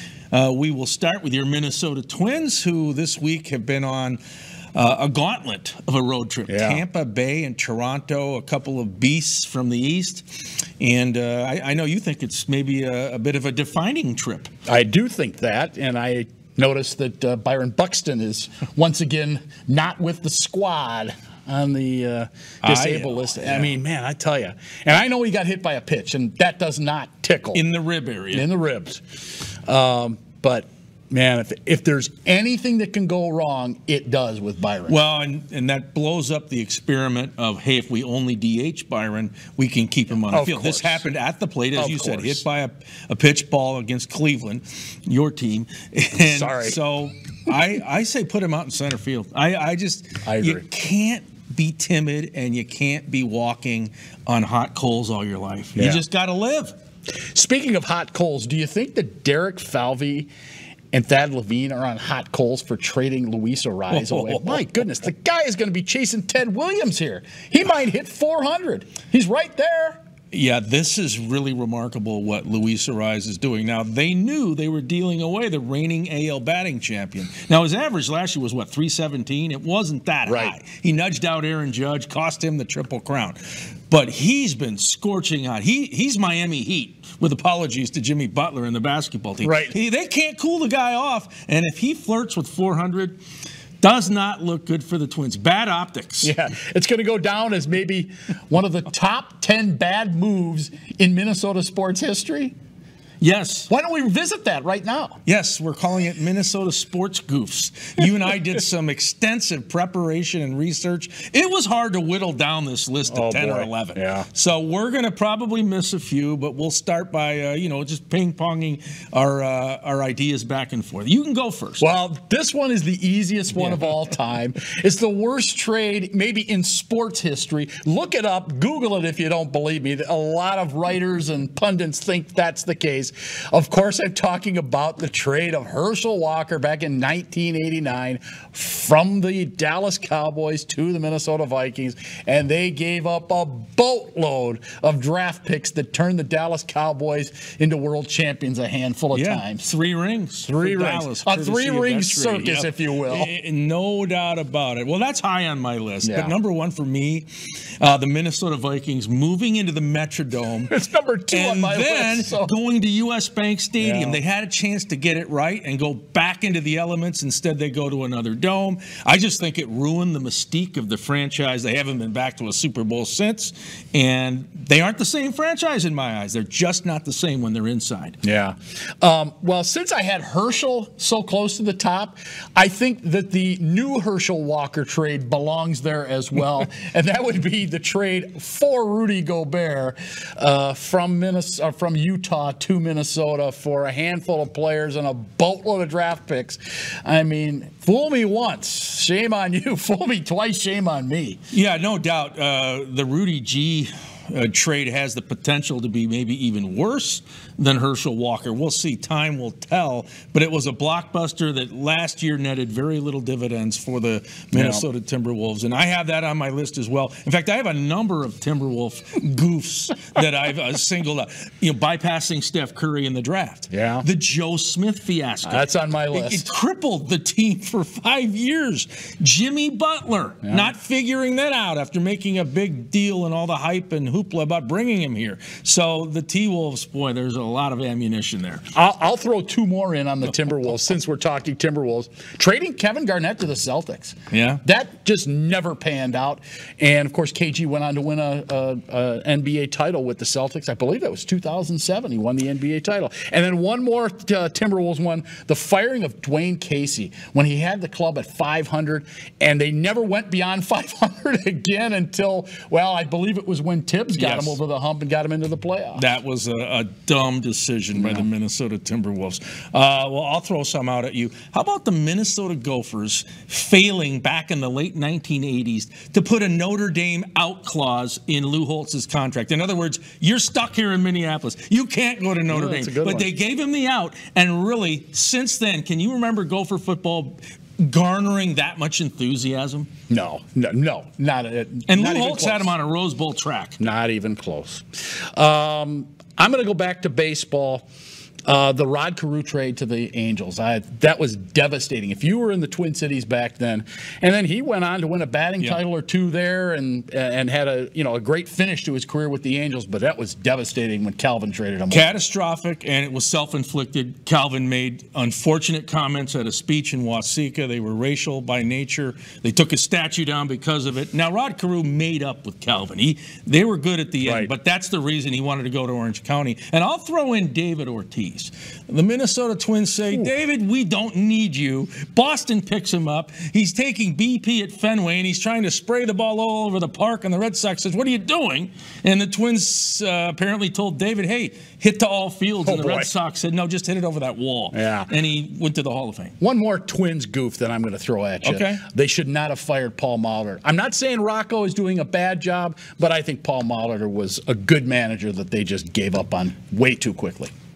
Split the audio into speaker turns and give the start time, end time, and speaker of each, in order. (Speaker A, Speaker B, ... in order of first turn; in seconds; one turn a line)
Speaker A: 0.3-4.2
Speaker A: 4.8-14.5
Speaker B: 6.5-6.8
Speaker B: 14.7-27.6
Speaker A: 22.6-23.8
Speaker A: 27.6-28.5
Speaker B: 28.3-29.0
Speaker B: 29.7-35.0
Speaker A: 34.9-56.7
Speaker B: 40.3-41.1
Speaker B: 41.8-42.5
Speaker B: 46.2-46.8
Speaker B: 50.2-50.6
Speaker B: 55.8-56.0
Speaker B: 57.3-60.3
Speaker B: 60.9-70.0
Speaker A: 63.9-64.7
Speaker A: 70.3-93.2
Speaker B: 80.2-80.5
Speaker B: 89.4-89.8
Speaker A: 93.8-96.3
Speaker B: 96.2-102.5
Speaker A: 103.2-103.7
Speaker B: 103.7-105.2
Speaker A: 105.3-121.8
Speaker B: 113.1-114.3
Speaker B: 121.8-149.7
Speaker A: 149.1-160.7
Speaker B: 150.4-153.3
Speaker B: 156.0-156.3
Speaker B: 160.7-162.5
Speaker A: 161.3-178.2
Speaker B: 163.8-164.2
Speaker B: 178.2-201.4
Speaker A: 201.5-238.7
Speaker B: 214.5-214.8
Speaker B: 223.7-224.1
Speaker B: 225.4-226.5
Speaker B: 238.7-266.1
Speaker A: 244.3-244.6
Speaker A: 264.2-264.6
Speaker A: 266.0-289.9
Speaker B: 267.9-268.3
Speaker B: 282.5-283.3
Speaker B: 290.1-292.7
Speaker A: 291.9-293.8
Speaker B: 293.8-297.9
Speaker B: 298.4-312.1
Speaker A: 311.9-346.3
Speaker B: 324.2-324.5
Speaker B: 342.6-343.1
Speaker B: 344.7-345.1
Speaker B: 346.4-357.5
Speaker A: 348.4-348.8